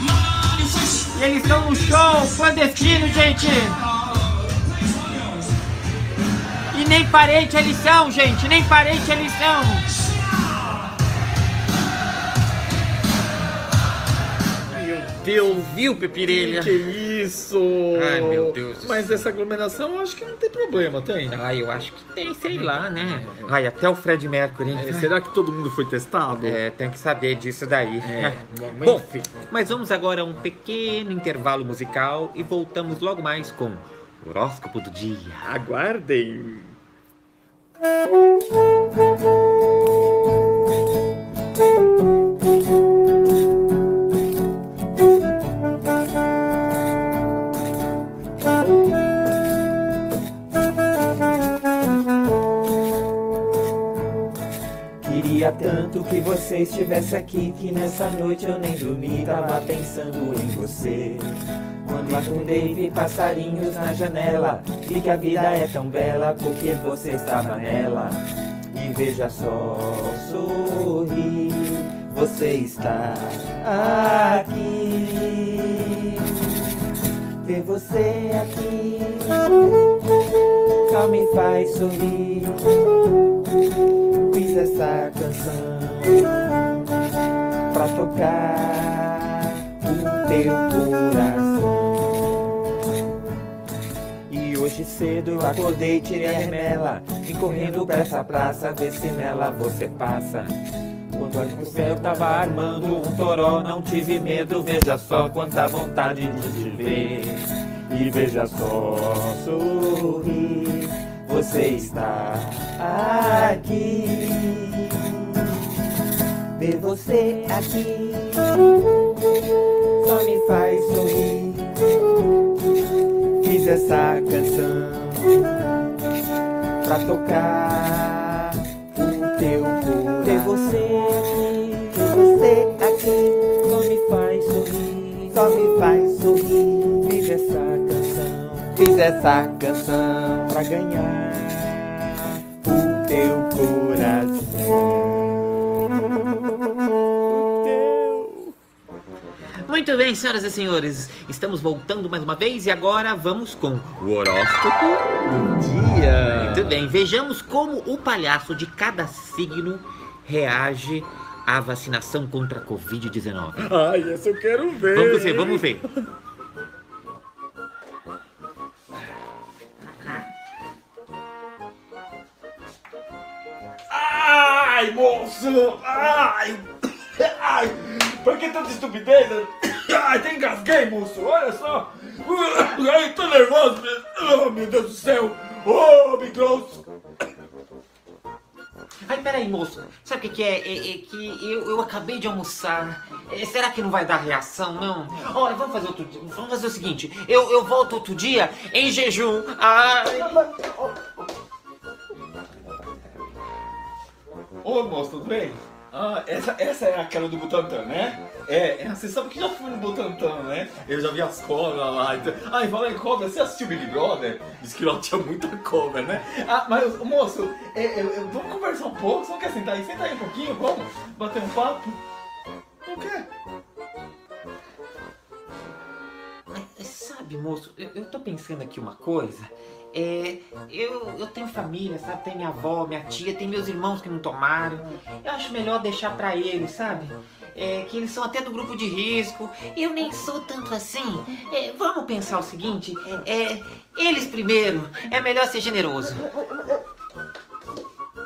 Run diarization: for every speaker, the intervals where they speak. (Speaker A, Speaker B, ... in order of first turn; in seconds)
Speaker A: 0.1-3.9, 6.7-9.9, 15.4-16.9, 17.9-19.2, 21.3-25.1, 26.3-35.5, 149.7-155.1, 156.3-163.7, 164.9-165.8, 189.1-200.4, 226.5-246.3
Speaker B: 14.7-21.4, 22.5-23.5, 24.7-26.6, 28.0-29.3, 35.4-36.8, 147.3-148.6, 155.2-156.8, 163.6-165.9, 173.9-186.8, 200.1-201.3, 204.6-222.0, 222.9-223.3
Speaker C: 55.0-61.3, 61.8-68.2, 68.7-76.0, 77.4-79.5, 80.8-82.7, 84.3-86.4, 87.7-92.3, 94.3-100.5, 101.1-115.5, 116.5-118.5, 120.0-121.8, 123.4-125.5, 126.8-142.0, 142.6-145.3